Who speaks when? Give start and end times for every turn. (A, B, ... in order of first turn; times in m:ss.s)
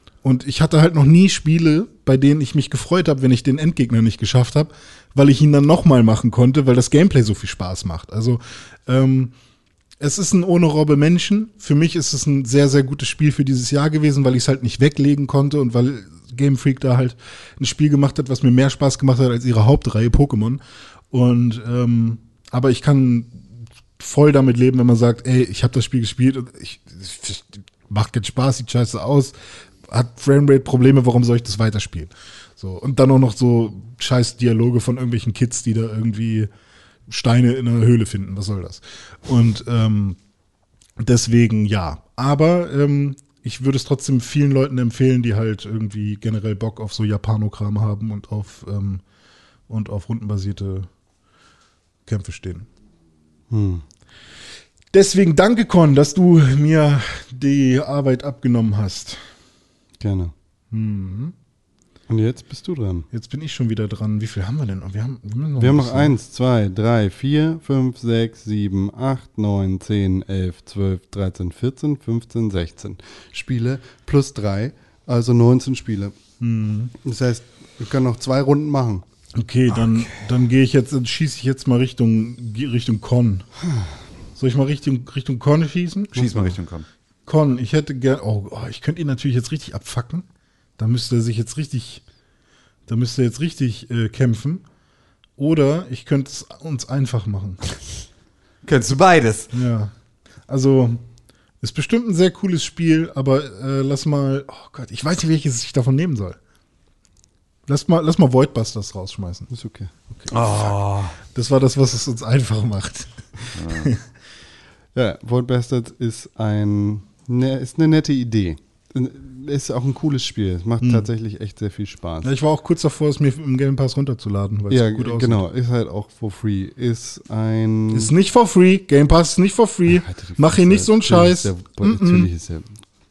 0:00.2-0:09.3 A
0:10.0-0:20.6 A
0:21.1-0:23.4 A
0:24.0-0:29.4 A
0:29.9-0:36.5 A
0:37.1-0:40.2 A
0:41.0-0:49.0 A
0:49.7-0:50.9 A
0:52.1-0:52.7 A
0:53.5-0:53.8 B
0:54.9-0:59.2 A
1:00.0-1:00.3 B
1:00.7-1:01.3 A
1:02.1-1:03.1 B
1:03.1-1:06.1 A
1:05.6-1:16.2 B
1:16.4-1:16.9 A
1:17.0-1:19.0 B
1:19.4-1:23.5 A
1:19.7-1:20.2 C
1:24.4-1:26.6 A
1:26.1-1:26.9 C
1:27.3-1:30.3 A
1:30.8-1:32.0 A
1:32.9-1:34.6 A
1:35.4-1:37.6 A
1:38.6-1:39.5 C
1:39.5-1:39.9 A
1:40.5-1:41.0 A
1:41.6-1:46.4 A
1:47.7-1:49.5 A
1:49.5-1:49.9 B
1:50.2-1:54.0 A
1:50.3-1:51.2 C
1:53.6-1:53.9 C
1:55.0-2:02.3 B
2:00.8-2:01.1 A
2:02.2-2:05.4 A
2:04.7-2:08.1 B
2:07.9-2:12.3 A
2:09.9-2:12.8 B